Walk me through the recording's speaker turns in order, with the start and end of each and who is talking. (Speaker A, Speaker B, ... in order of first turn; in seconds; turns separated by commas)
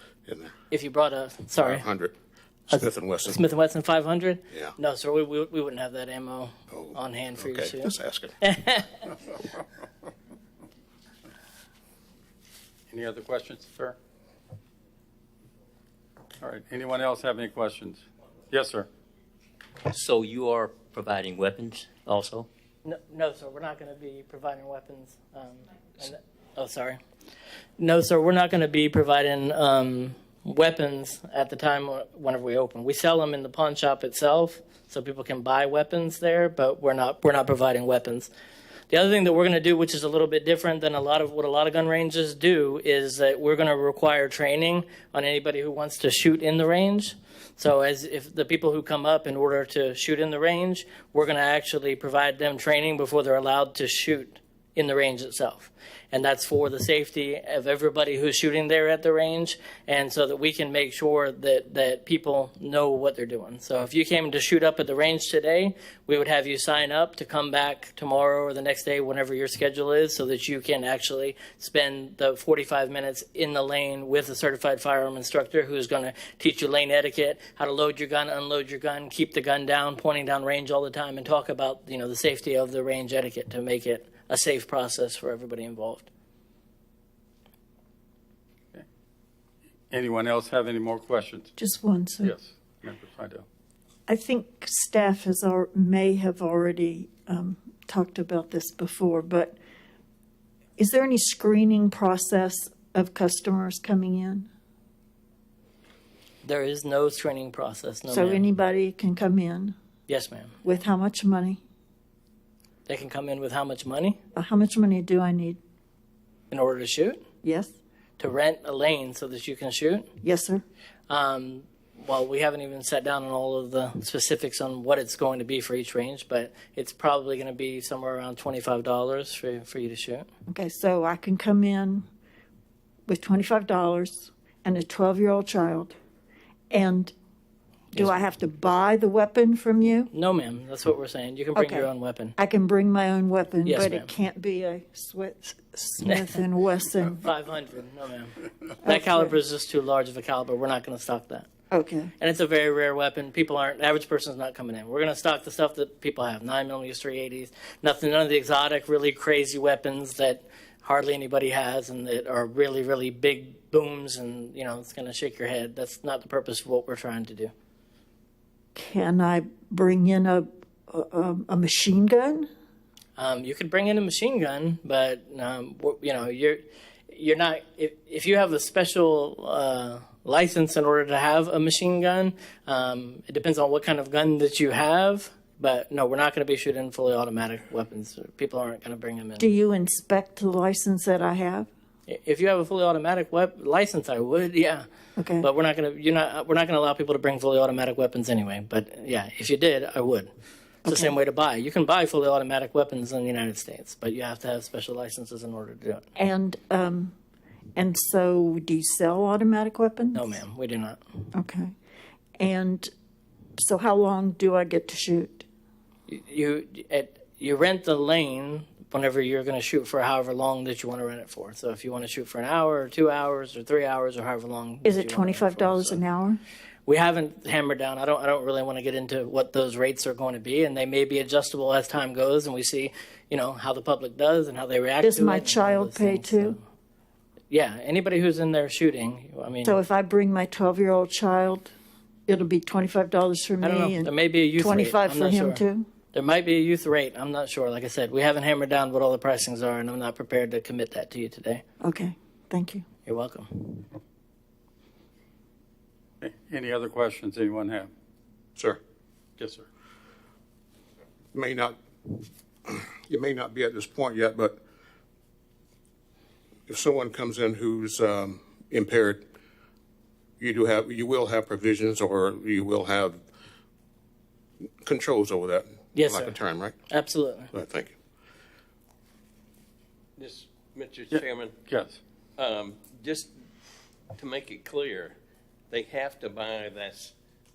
Speaker A: 0.3-0.5, Speaker B: 0.7-1.9, Speaker A: 1.6-2.1, Speaker A: 2.7-3.4, Speaker B: 2.7-9.1, Speaker A: 6.7-8.4, Speaker C: 12.9-14.0, Speaker C: 16.4-18.9, Speaker D: 19.9-22.5, Speaker B: 22.9-27.0, Speaker B: 27.8-38.3, Speaker B: 38.9-86.1, Speaker C: 89.9-91.5, Speaker E: 91.6-92.3, Speaker C: 92.2-93.5, Speaker E: 94.1-99.6, Speaker E: 100.8-104.5, Speaker B: 106.4-108.5, Speaker E: 108.1-109.8, Speaker B: 110.1-110.5, Speaker E: 110.6-111.6, Speaker B: 112.9-114.2, Speaker E: 114.3-115.6, Speaker B: 116.5-117.2, Speaker E: 117.4-117.7, Speaker B: 118.2-120.1, Speaker E: 120.2-120.6, Speaker B: 121.1-130.3, Speaker E: 130.5-132.1, Speaker E: 133.1-135.9, Speaker E: 136.7-137.1, Speaker E: 137.9-140.1, Speaker B: 140.1-142.3, Speaker E: 141.6-147.2, Speaker B: 143.7-144.1, Speaker B: 146.1-146.3, Speaker B: 147.1-151.5, Speaker E: 148.8-149.3, Speaker E: 151.7-152.1, Speaker B: 152.2-167.5, Speaker E: 168.8-172.5, Speaker B: 173.2-189.5, Speaker E: 189.4-191.7, Speaker B: 192.1-194.9, Speaker E: 195.2-195.5, Speaker B: 195.4-200.3, Speaker E: 200.8-201.1, Speaker B: 200.8-206.1, Speaker E: 206.2-207.1, Speaker E: 207.8-210.3, Speaker B: 210.2-211.0, Speaker E: 211.3-211.7, Speaker E: 212.4-212.9, Speaker E: 213.6-215.5, Speaker B: 216.1-226.0, Speaker E: 224.8-226.4, Speaker B: 226.9-236.6, Speaker E: 235.0-236.6, Speaker B: 237.5-239.8, Speaker E: 239.6-241.7, Speaker E: 242.3-245.9, Speaker B: 243.6-251.6, Speaker E: 251.8-252.8, Speaker B: 253.1-253.9, Speaker C: 256.2-257.9, Speaker C: 259.4-259.7, Speaker A: 261.3-261.8, Speaker A: 262.7-264.6, Speaker A: 266.7-269.3, Speaker A: 270.4-273.2, Speaker A: 274.8-276.8, Speaker B: 275.9-276.4, Speaker B: 276.9-277.5, Speaker A: 277.5-277.9, Speaker F: 280.2-281.6, Speaker C: 281.1-282.0, Speaker F: 282.4-283.3, Speaker F: 284.1-285.2, Speaker F: 285.7-287.1